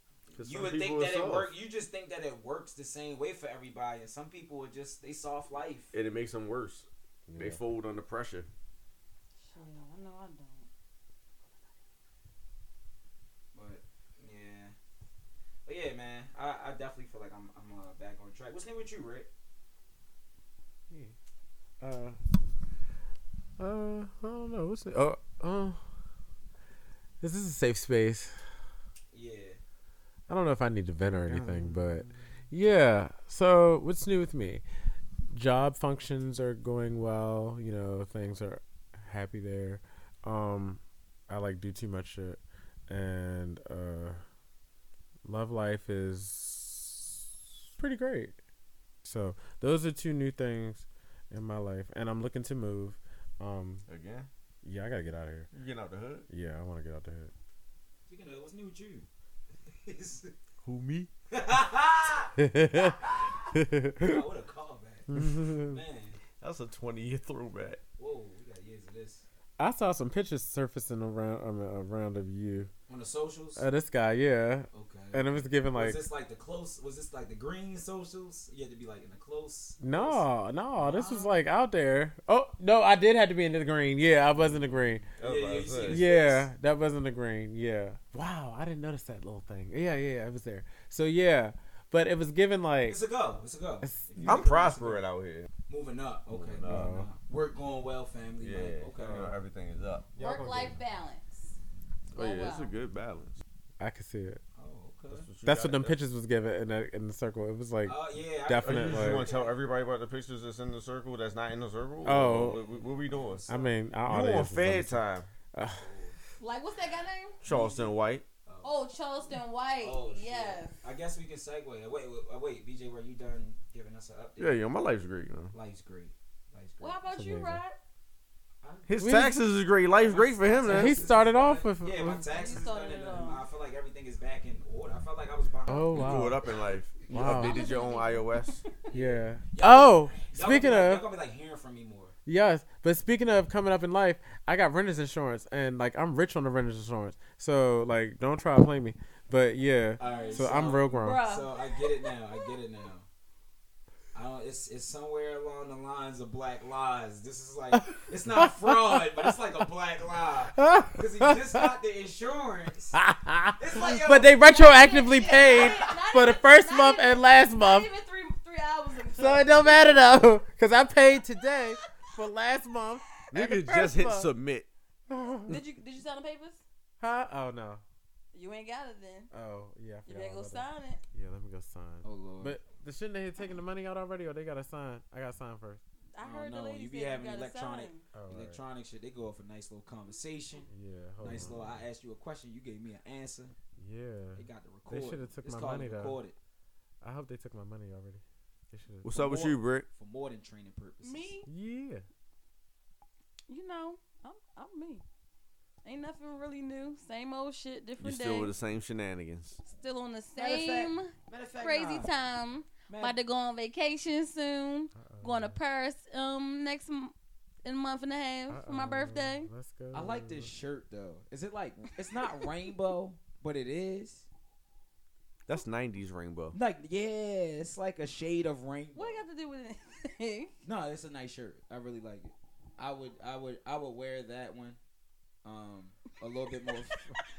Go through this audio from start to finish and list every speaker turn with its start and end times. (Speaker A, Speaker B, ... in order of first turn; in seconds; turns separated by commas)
Speaker A: 0.3-5.9, Speaker B: 0.4-1.5, Speaker B: 5.9-8.5, Speaker C: 7.3-7.6, Speaker D: 9.4-10.7, Speaker A: 13.5-14.8, Speaker A: 15.7-19.3, Speaker C: 20.9-21.1, Speaker C: 21.8-22.2, Speaker C: 23.6-25.8, Speaker C: 27.2-28.4, Speaker A: 29.1-29.6, Speaker C: 30.3-34.6, Speaker B: 31.3-32.2, Speaker C: 35.3-44.2, Speaker C: 45.2-47.2, Speaker C: 47.8-48.4, Speaker C: 49.0-53.9, Speaker B: 53.9-54.3, Speaker C: 54.6-55.5, Speaker B: 55.5-56.3, Speaker C: 56.3-57.3, Speaker A: 58.1-59.1, Speaker A: 59.8-60.3, Speaker B: 60.6-61.1, Speaker A: 61.3-66.2, Speaker C: 62.4-64.2, Speaker C: 65.1-65.8, Speaker B: 66.4-67.8, Speaker A: 68.0-69.3, Speaker C: 69.6-72.7, Speaker A: 72.9-73.7, Speaker C: 73.6-76.0, Speaker A: 74.7-80.3, Speaker C: 79.8-85.1, Speaker A: 80.8-81.3, Speaker B: 85.2-86.0, Speaker A: 85.2-86.5, Speaker C: 85.9-93.0, Speaker A: 92.9-95.0, Speaker C: 93.8-94.5, Speaker B: 94.2-95.5, Speaker A: 95.7-99.3, Speaker B: 96.3-96.9, Speaker C: 96.7-97.1, Speaker B: 98.4-100.1, Speaker C: 99.0-99.3, Speaker C: 100.2-100.8, Speaker D: 100.2-101.5, Speaker B: 102.1-103.4, Speaker D: 102.2-102.7, Speaker C: 103.8-104.4, Speaker A: 104.6-105.3, Speaker B: 105.1-106.0, Speaker C: 105.4-109.2, Speaker A: 107.8-109.6, Speaker B: 108.6-113.5, Speaker C: 112.0-112.6, Speaker A: 112.2-113.7, Speaker C: 113.5-115.9, Speaker B: 114.1-115.3, Speaker A: 115.7-116.2, Speaker D: 116.4-117.4, Speaker B: 117.4-118.2, Speaker A: 117.5-118.0, Speaker A: 118.5-118.7, Speaker D: 118.6-120.8, Speaker A: 119.8-124.7, Speaker B: 124.4-125.5, Speaker A: 125.5-127.0, Speaker D: 126.8-127.8, Speaker C: 127.1-127.6, Speaker A: 128.6-128.9, Speaker B: 128.9-131.1, Speaker C: 129.0-129.4, Speaker A: 129.9-136.7, Speaker C: 130.7-132.4, Speaker D: 132.2-133.4, Speaker C: 135.7-136.4, Speaker B: 135.9-138.6, Speaker C: 137.1-137.6, Speaker D: 137.2-138.8, Speaker A: 138.9-142.2, Speaker C: 138.9-141.0, Speaker C: 142.3-151.2, Speaker A: 150.0-153.1, Speaker D: 150.0-152.5, Speaker A: 154.1-163.0, Speaker C: 157.7-159.3, Speaker C: 160.6-161.7, Speaker C: 162.9-167.9, Speaker A: 163.6-165.8, Speaker D: 164.4-170.0, Speaker C: 169.1-174.3, Speaker B: 173.3-174.7, Speaker C: 175.1-175.6, Speaker D: 175.5-176.6, Speaker C: 177.0-177.8, Speaker D: 178.3-179.3, Speaker C: 179.3-185.8, Speaker D: 180.1-181.0, Speaker A: 182.0-182.6, Speaker D: 186.1-188.1, Speaker A: 186.2-190.7, Speaker C: 188.1-188.6, Speaker C: 190.7-191.8, Speaker A: 191.2-193.6, Speaker C: 193.8-196.2, Speaker A: 194.4-196.4, Speaker C: 197.0-199.2, Speaker B: 199.0-199.9, Speaker A: 199.1-201.3, Speaker D: 201.0-201.5, Speaker C: 201.5-202.1, Speaker D: 203.5-205.0, Speaker D: 205.8-208.5, Speaker B: 208.0-209.6, Speaker D: 209.6-219.5, Speaker A: 210.4-212.1, Speaker A: 212.9-213.2, Speaker C: 214.9-215.6, Speaker C: 218.5-220.5, Speaker A: 219.9-224.3, Speaker B: 225.5-226.6, Speaker A: 226.5-229.2, Speaker D: 228.9-230.6, Speaker A: 230.6-234.8, Speaker A: 235.4-237.1